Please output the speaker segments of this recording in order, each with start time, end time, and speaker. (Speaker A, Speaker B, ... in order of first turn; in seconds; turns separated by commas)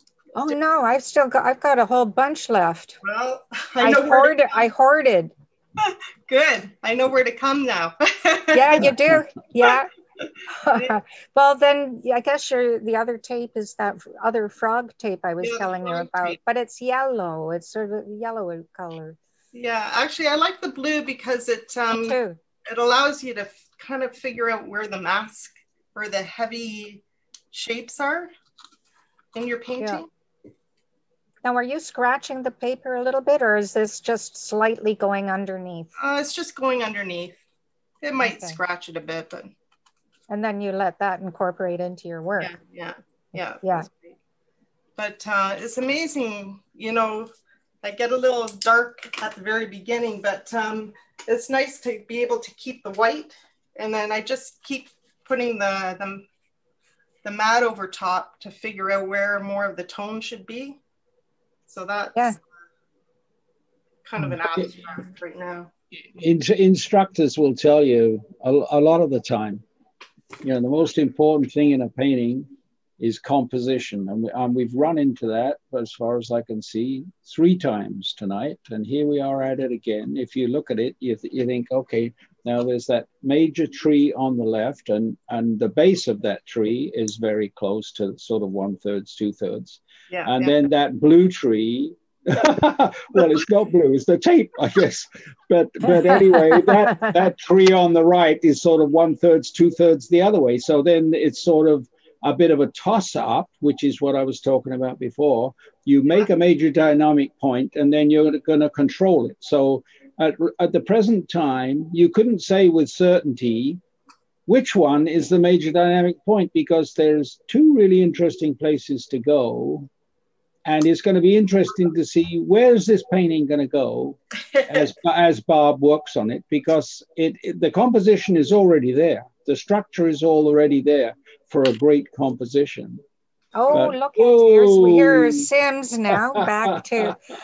Speaker A: 0.3-3.0, Speaker B: 3.0-4.7, Speaker A: 3.8-5.3, Speaker B: 5.8-8.9, Speaker A: 8.5-9.9, Speaker A: 10.5-19.2, Speaker B: 15.4-16.4, Speaker B: 19.5-22.2, Speaker A: 21.9-22.4, Speaker B: 22.7-28.3, Speaker B: 29.3-30.1, Speaker A: 29.8-30.0, Speaker A: 31.4-35.9, Speaker B: 36.0-37.3, Speaker B: 38.0-39.5, Speaker A: 38.2-38.6, Speaker A: 40.3-42.5, Speaker B: 42.4-44.1, Speaker A: 43.6-43.9, Speaker B: 45.0-47.3, Speaker B: 47.8-56.2, Speaker B: 57.2-60.8, Speaker B: 61.7-62.4, Speaker B: 64.0-65.7, Speaker C: 64.2-64.7, Speaker C: 66.1-69.6, Speaker C: 70.4-72.5, Speaker C: 73.0-113.8, Speaker B: 90.1-90.4, Speaker A: 95.9-97.1, Speaker C: 114.5-119.9, Speaker C: 120.6-133.0, Speaker B: 124.6-124.8, Speaker A: 133.5-137.2, Speaker C: 133.7-135.5, Speaker C: 136.1-137.1